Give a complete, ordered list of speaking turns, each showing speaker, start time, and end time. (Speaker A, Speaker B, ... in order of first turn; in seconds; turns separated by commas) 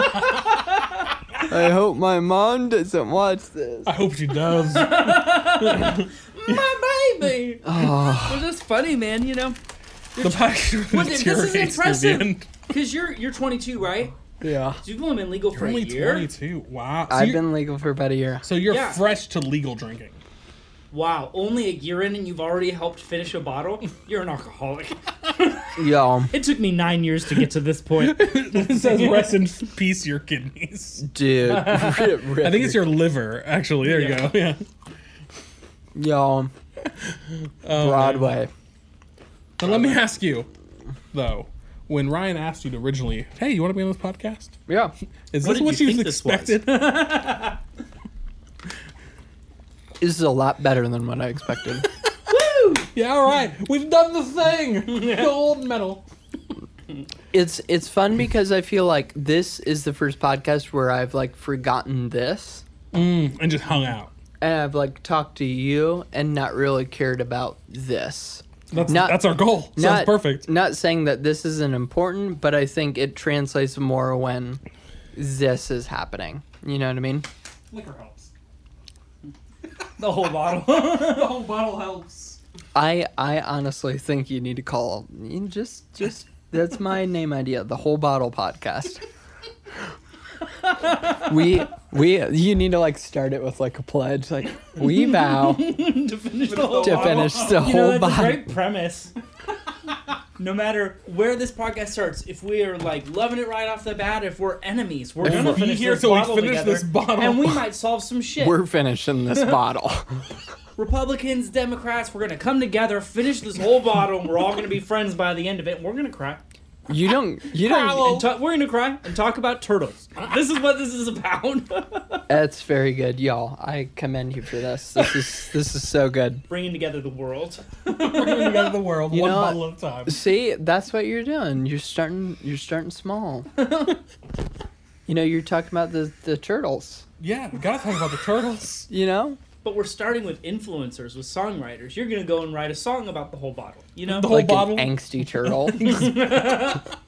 Speaker A: 1.4-3.9, Speaker B: 3.8-6.7, Speaker C: 4.5-9.6, Speaker A: 7.6-8.4, Speaker C: 10.1-14.1, Speaker B: 10.2-12.5, Speaker A: 14.4-14.8, Speaker C: 14.8-16.3, Speaker B: 15.5-17.4, Speaker A: 17.1-18.4, Speaker B: 18.4-20.2, Speaker C: 18.7-19.0, Speaker C: 20.9-25.7, Speaker A: 25.8-26.3, Speaker C: 26.3-29.4, Speaker B: 28.0-31.1, Speaker A: 31.0-32.9, Speaker C: 31.5-32.1, Speaker B: 32.4-34.6, Speaker C: 33.8-34.3, Speaker A: 35.9-36.5, Speaker B: 37.0-38.4, Speaker A: 37.7-38.5, Speaker B: 39.6-40.5, Speaker B: 41.1-44.5, Speaker A: 44.7-44.9, Speaker B: 45.3-46.9, Speaker C: 45.4-47.6, Speaker A: 50.0-51.9, Speaker C: 52.3-52.9, Speaker B: 52.9-56.0, Speaker C: 54.9-55.3, Speaker A: 57.3-62.6, Speaker B: 62.9-64.1, Speaker A: 64.4-74.6, Speaker B: 68.7-70.5, Speaker A: 75.1-77.3, Speaker B: 77.7-78.3, Speaker C: 80.0-81.3, Speaker B: 80.8-82.4, Speaker A: 82.7-89.0, Speaker C: 90.8-91.2, Speaker A: 91.1-95.7, Speaker C: 94.8-99.1, Speaker B: 96.4-97.8, Speaker A: 96.8-98.5, Speaker C: 100.4-108.6, Speaker B: 105.2-107.6, Speaker A: 108.4-110.2, Speaker C: 110.8-116.4, Speaker A: 116.9-118.2, Speaker B: 117.5-118.3, Speaker C: 117.8-122.2, Speaker A: 122.3-126.4, Speaker C: 126.5-128.8, Speaker B: 127.9-130.2, Speaker A: 129.1-133.5, Speaker C: 133.6-133.9, Speaker A: 135.1-137.1, Speaker B: 137.2-138.9, Speaker A: 138.9-139.4, Speaker C: 139.6-144.3, Speaker B: 144.1-146.8, Speaker A: 144.2-145.9, Speaker C: 145.8-146.8